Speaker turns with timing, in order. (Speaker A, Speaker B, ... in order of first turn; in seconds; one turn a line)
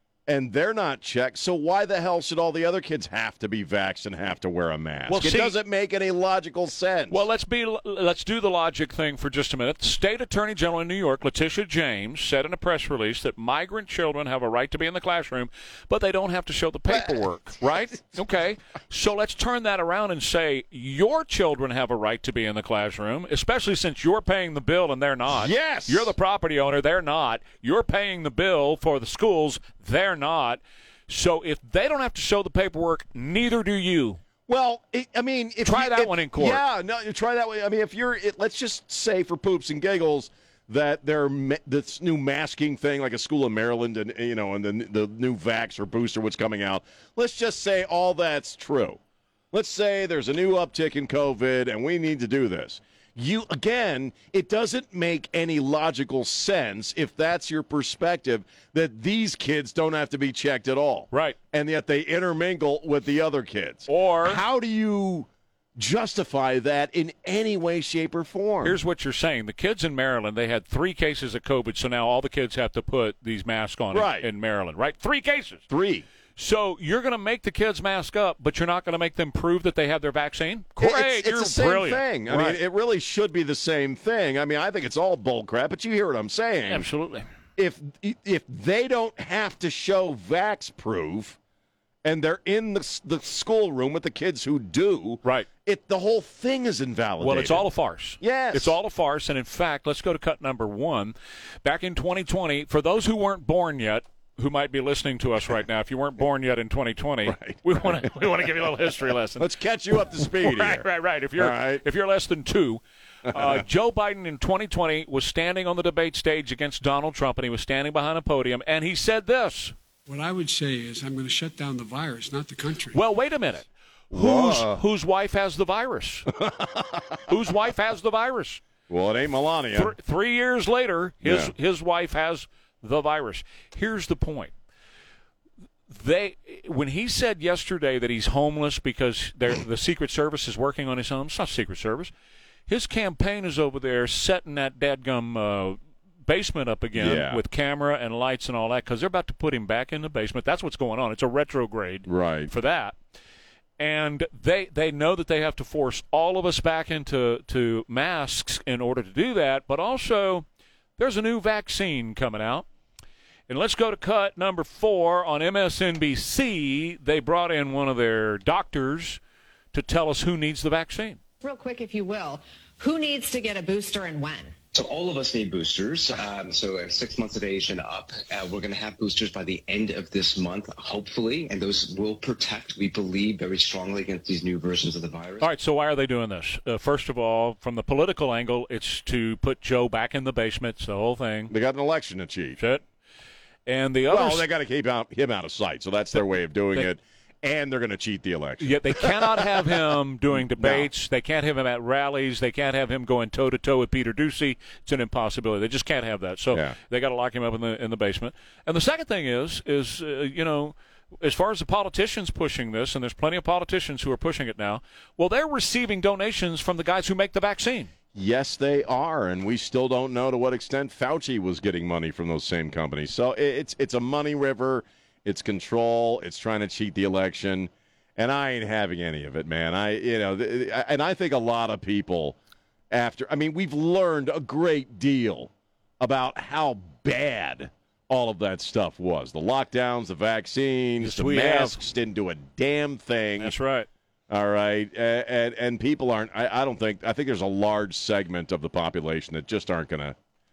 Speaker A: 0.3-7.2
Speaker B: 5.1-5.6
Speaker B: 7.1-34.2
Speaker A: 25.3-26.1
Speaker A: 34.5-49.0
Speaker B: 35.6-36.6
Speaker A: 49.5-68.8
Speaker B: 61.1-61.4
Speaker B: 63.9-64.4
Speaker B: 68.6-75.6
Speaker A: 73.9-74.3
Speaker A: 75.7-76.1
Speaker B: 76.4-82.6
Speaker A: 80.8-86.9
Speaker B: 86.7-87.3
Speaker A: 87.6-91.4
Speaker A: 92.0-97.7
Speaker B: 97.2-109.5
Speaker A: 98.2-98.8
Speaker A: 107.3-107.9
Speaker A: 109.4-111.8
Speaker B: 110.2-119.7
Speaker A: 113.3-113.6
Speaker C: 120.1-123.0
Speaker B: 122.9-126.3
Speaker A: 124.1-124.8
Speaker A: 126.3-127.2
Speaker B: 127.3-128.6
Speaker A: 128.9-129.9
Speaker B: 129.7-134.5
Speaker A: 131.2-131.5
Speaker B: 135.9-142.1
Speaker B: 142.7-153.0
Speaker A: 147.0-147.4
Speaker A: 152.1-152.5
Speaker B: 153.8-160.4
Speaker B: 161.0-162.7
Speaker B: 163.5-169.2
Speaker B: 169.7-171.2
Speaker D: 171.4-174.5
Speaker E: 174.7-185.5
Speaker B: 185.4-191.5
Speaker A: 191.5-192.6
Speaker B: 192.6-192.8
Speaker B: 193.7-194.5
Speaker A: 194.1-199.8
Speaker B: 198.6-217.9
Speaker A: 200.3-200.9
Speaker A: 218.1-232.4
Speaker A: 232.9-243.6
Speaker B: 241.0-241.8
Speaker B: 243.4-243.9
Speaker A: 244.3-250.2